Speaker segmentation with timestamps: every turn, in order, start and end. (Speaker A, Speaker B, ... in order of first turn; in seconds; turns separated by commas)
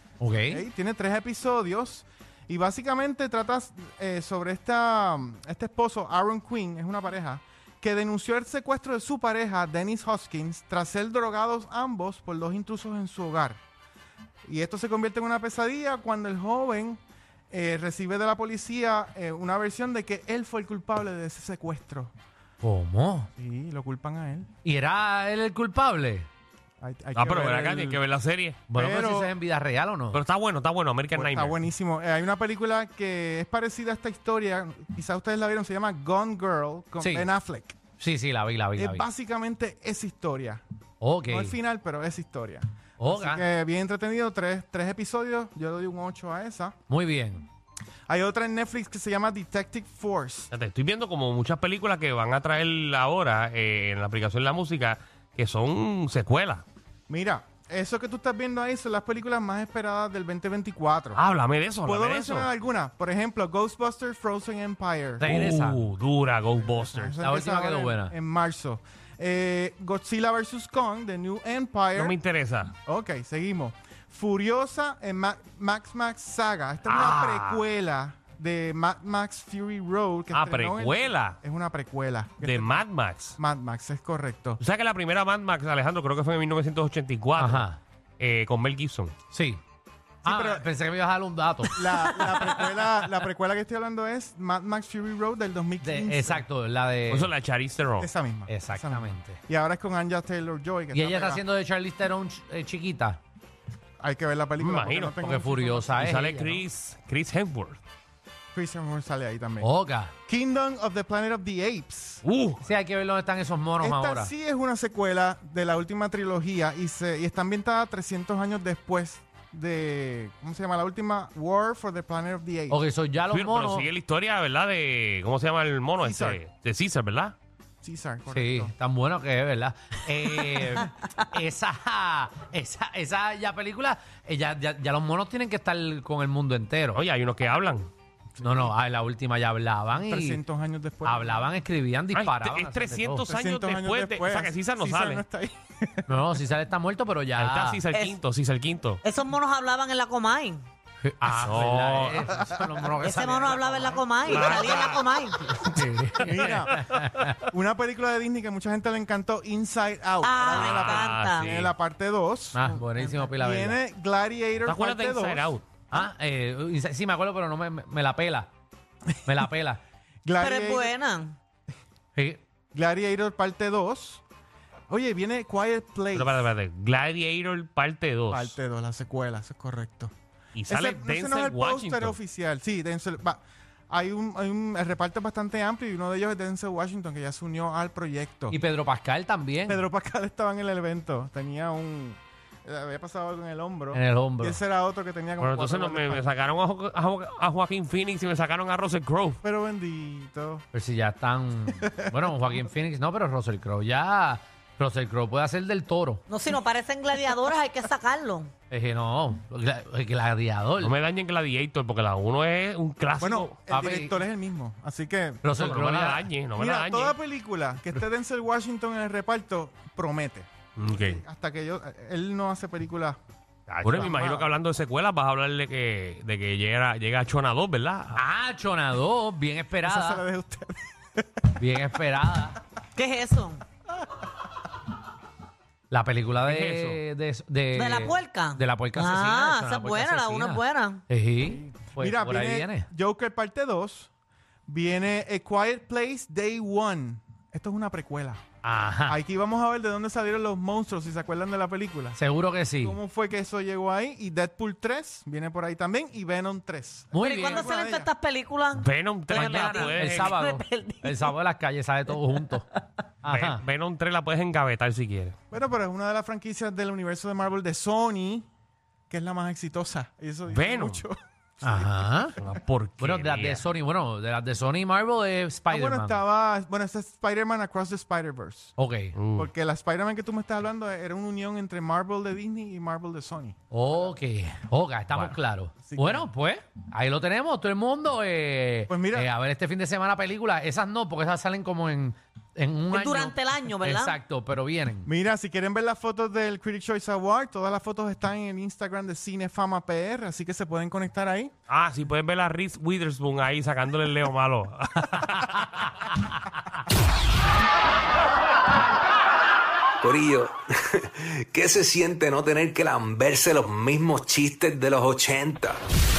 Speaker A: 0.2-0.7, Speaker B: 0.5-13.6, Speaker B: 14.4-22.1, Speaker A: 22.6-23.3, Speaker B: 23.4-24.5, Speaker A: 24.6-26.3, Speaker B: 26.8-28.0, Speaker C: 27.1-28.6, Speaker A: 28.7-30.2, Speaker B: 28.7-29.3, Speaker C: 30.1-31.6, Speaker B: 31.1-37.8, Speaker A: 37.0-37.3, Speaker A: 38.0-39.1, Speaker B: 38.8-40.6, Speaker A: 41.0-41.6, Speaker B: 41.3-46.8, Speaker A: 43.0-43.5, Speaker A: 46.9-47.5, Speaker B: 48.1-50.5, Speaker C: 50.5-56.6, Speaker B: 57.1-61.2, Speaker C: 61.1-62.5, Speaker B: 61.8-65.3, Speaker A: 65.2-65.8, Speaker C: 65.2-67.2, Speaker B: 66.6-72.2, Speaker A: 67.2-68.1, Speaker C: 71.9-72.7, Speaker B: 72.9-82.8, Speaker C: 76.8-77.6, Speaker C: 80.3-81.4, Speaker C: 82.4-83.4, Speaker B: 83.4-84.6, Speaker C: 84.6-87.7, Speaker A: 87.4-87.8, Speaker C: 88.2-89.1, Speaker A: 89.3-89.6, Speaker B: 90.2-90.7, Speaker A: 90.2-91.8, Speaker B: 91.8-96.5, Speaker A: 95.8-97.3, Speaker C: 97.1-98.1, Speaker B: 98.0-101.4, Speaker A: 98.5-99.4, Speaker A: 100.9-103.2, Speaker B: 104.0-106.0, Speaker C: 104.6-105.2, Speaker A: 105.2-106.7, Speaker C: 106.0-107.8, Speaker B: 108.5-109.7, Speaker A: 109.6-110.1, Speaker B: 110.3-112.2, Speaker C: 112.2-112.6, Speaker A: 112.6-114.3, Speaker B: 113.8-122.8, Speaker A: 122.7-123.9, Speaker C: 123.3-127.3, Speaker B: 126.0-126.4, Speaker B: 127.8-128.8, Speaker A: 128.3-137.0, Speaker C: 136.9-137.9, Speaker A: 138.4-140.4, Speaker B: 138.4-138.7, Speaker B: 140.0-141.5, Speaker A: 141.0-143.3, Speaker C: 142.1-145.2, Speaker B: 143.3-146.2, Speaker A: 146.1-147.8, Speaker C: 147.4-149.0, Speaker D: 149.0-150.6, Speaker A: 151.0-154.0, Speaker C: 151.2-152.3, Speaker D: 153.0-155.4, Speaker C: 154.2-155.1, Speaker A: 155.5-157.4, Speaker C: 155.6-156.4, Speaker B: 156.2-156.8, Speaker C: 157.0-157.3, Speaker B: 157.4-165.5, Speaker D: 160.2-161.5, Speaker C: 160.5-161.7, Speaker A: 162.5-163.8, Speaker C: 164.6-165.7, Speaker A: 165.9-168.5, Speaker A: 169.2-169.8, Speaker B: 170.2-170.9, Speaker D: 170.4-171.3, Speaker A: 172.2-172.4, Speaker B: 172.7-174.2, Speaker B: 174.9-176.5, Speaker C: 176.2-178.6, Speaker B: 178.3-180.1, Speaker C: 180.5-182.2, Speaker B: 180.7-188.6, Speaker A: 188.5-189.9, Speaker B: 189.7-196.2, Speaker A: 193.9-194.6, Speaker C: 195.4-199.4, Speaker B: 199.4-200.7, Speaker A: 200.7-206.2, Speaker B: 201.7-202.6, Speaker D: 206.3-208.5, Speaker A: 208.7-210.9, Speaker C: 210.8-213.6, Speaker B: 213.2-215.5, Speaker A: 213.7-214.2, Speaker A: 215.4-216.3, Speaker C: 215.6-217.2, Speaker B: 216.6-223.2, Speaker C: 220.8-221.2, Speaker A: 223.7-224.2, Speaker C: 223.8-228.2, Speaker B: 223.9-224.4, Speaker A: 228.2-230.2, Speaker B: 229.8-231.4, Speaker A: 231.6-232.6, Speaker D: 233.0-233.6, Speaker A: 235.9-242.9, Speaker C: 236.4-237.0, Speaker D: 237.8-241.0, Speaker B: 241.4-244.1, Speaker B: 244.7-248.4, Speaker A: 248.6-249.2, Speaker B: 249.1-252.2, Speaker A: 252.2-253.0, Speaker B: 252.8-258.1, Speaker A: 257.1-257.7, Speaker D: 257.2-261.3, Speaker C: 258.8-260.3, Speaker A: 259.3-262.7, Speaker A: 263.2-263.6, Speaker C: 263.3-265.4, Speaker B: 265.5-268.5, Speaker B: 269.1-272.6, Speaker C: 270.5-271.1, Speaker A: 271.6-272.4, Speaker C: 272.4-273.6, Speaker A: 273.0-276.2, Speaker B: 275.7-278.8, Speaker A: 278.8-279.1, Speaker C: 279.1-279.5, Speaker B: 279.4-283.6, Speaker A: 283.7-295.1, Speaker B: 285.9-286.3, Speaker B: 288.9-289.3, Speaker D: 292.9-294.2, Speaker B: 295.1-301.5, Speaker C: 301.7-305.8, Speaker E: 310.0-315.8